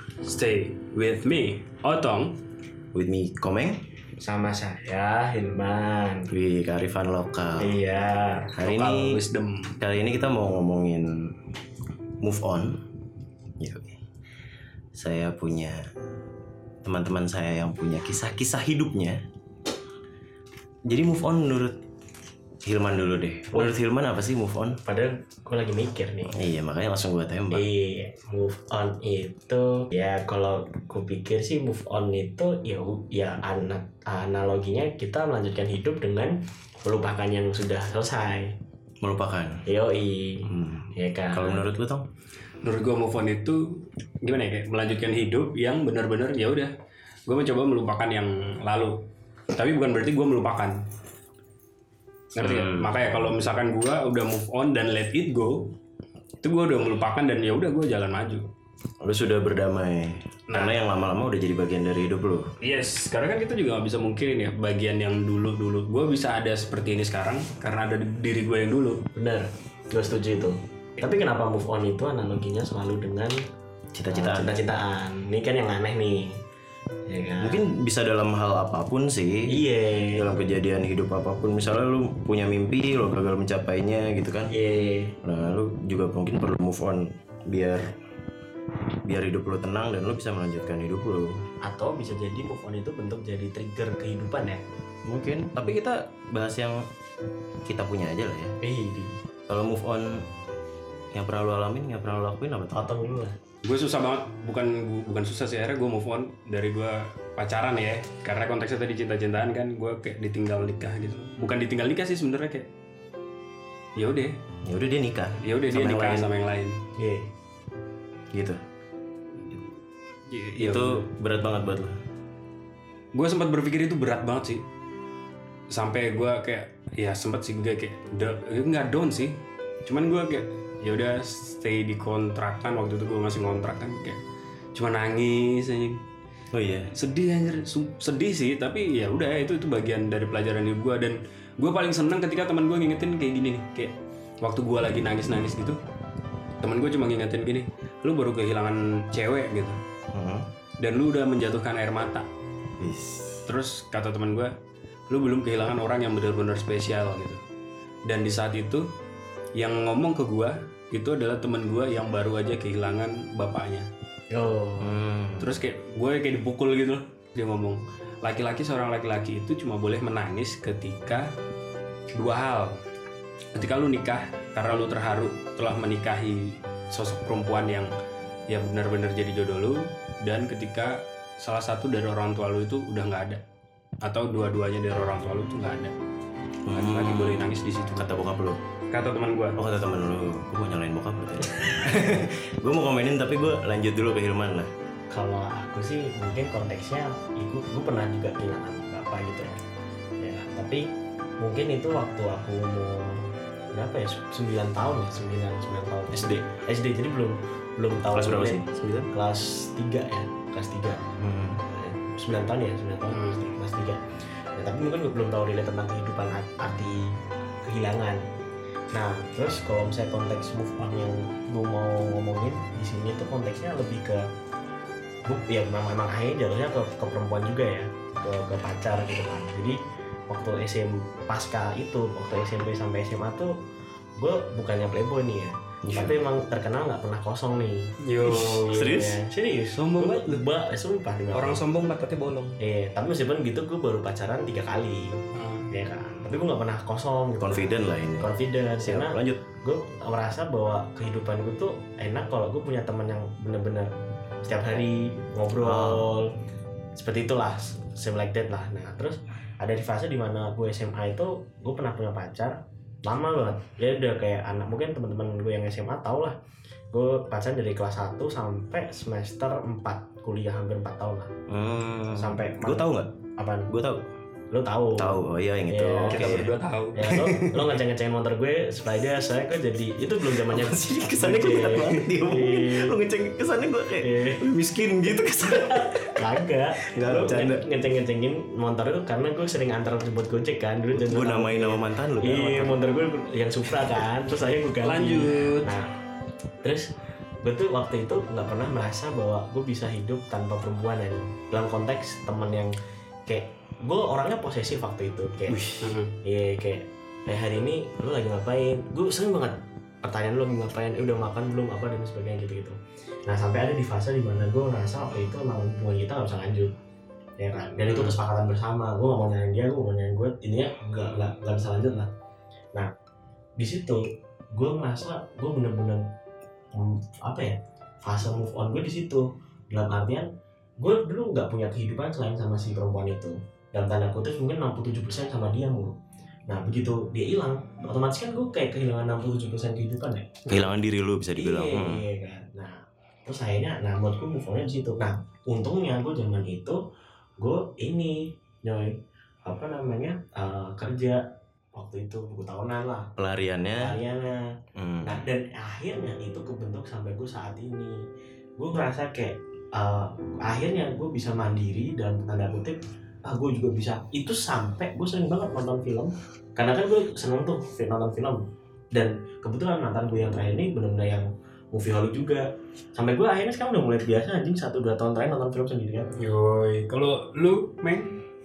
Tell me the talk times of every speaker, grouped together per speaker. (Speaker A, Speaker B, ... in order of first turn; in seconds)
Speaker A: 0.2-2.4, 8.6-9.8, 42.6-46.7, 47.3-49.0, 49.5-50.8, 52.3-55.7, 56.4-58.5, 60.5-60.8, 62.6-69.0, 103.6-112.7, 114.0-114.3, 115.4-116.8, 120.3-121.1, 123.1-124.6, 125.7-134.2, 134.8-136.0, 136.9-145.8, 146.6-149.8, 150.8-152.3, 153.5-154.5, 155.1-157.4, 158.1-158.8, 159.5-163.9, 165.4-171.3, 172.1-172.7, 173.5-177.9, 178.5-183.4, 184.0-185.9, 186.7-188.2, 188.9-189.6, 213.1-213.5, 238.0-238.8, 239.7-240.5, 241.3-242.6, 245.3-245.7, 276.1-276.9, 294.8-295.7, 305.8-306.2, 376.2-378.2
Speaker B: 2.9-3.8, 6.3-7.8, 8.5-9.2, 9.8-11.3, 12.2-12.8, 13.6-14.0, 14.9-15.8, 16.8-19.2, 20.9-21.8, 22.6-24.8, 26.3-27.7, 39.0-39.6, 40.5-42.1, 52.4-53.0, 59.0-62.5, 73.9-74.6, 77.4-79.5, 80.1-84.5, 85.2-87.9, 89.0-91.4, 95.0-96.8, 97.7-98.5, 99.5-100.2, 101.1-102.9, 114.6-116.3, 118.3-118.6, 120.5-122.0, 136.5-136.9, 150.1-150.5, 152.8-153.5, 164.8-165.6, 186.7-188.6, 189.6-194.7, 206.1-206.4, 208.1-209.1, 211.2-211.6, 235.8-236.2, 238.7-239.2, 247.4-249.5, 255.6-256.1, 271.5-273.1, 273.7-274.0, 275.0-277.7, 280.4-287.6, 290.9-292.8, 305.5-306.0, 340.5-342.1, 353.2-354.0, 354.8-355.2
Speaker C: 4.2-6.3, 7.6-8.6, 23.5-23.8, 24.8-26.6, 27.5-38.6, 39.7-41.8, 69.1-73.3, 74.1-76.3, 77.1-77.6, 79.5-80.3, 84.5-85.2, 91.6-94.6, 98.6-99.2, 102.7-103.3, 117.0-117.3, 164.3-164.9, 195.1-199.6, 200.2-200.8, 201.4-211.0, 211.6-214.0, 214.5-218.2, 218.9-224.2, 225.2-229.8, 230.3-233.5, 234.2-241.6, 242.6-245.2, 245.7-253.9, 254.4-256.3, 257.0-266.4, 266.9-271.3, 272.1-273.7, 274.5-283.0, 284.0-284.5, 285.4-295.9, 296.6-296.9, 297.4-302.7, 303.3-305.6, 306.2-312.8, 313.2-316.7, 317.4-322.1, 323.6-324.0, 324.5-326.0, 326.7-330.3, 330.8-336.0, 336.5-340.7, 341.4-346.8, 347.4-348.9, 349.5-351.2, 351.8-353.1, 353.8-354.5, 355.0-358.0, 358.6-368.4, 368.9-372.4, 372.9-376.1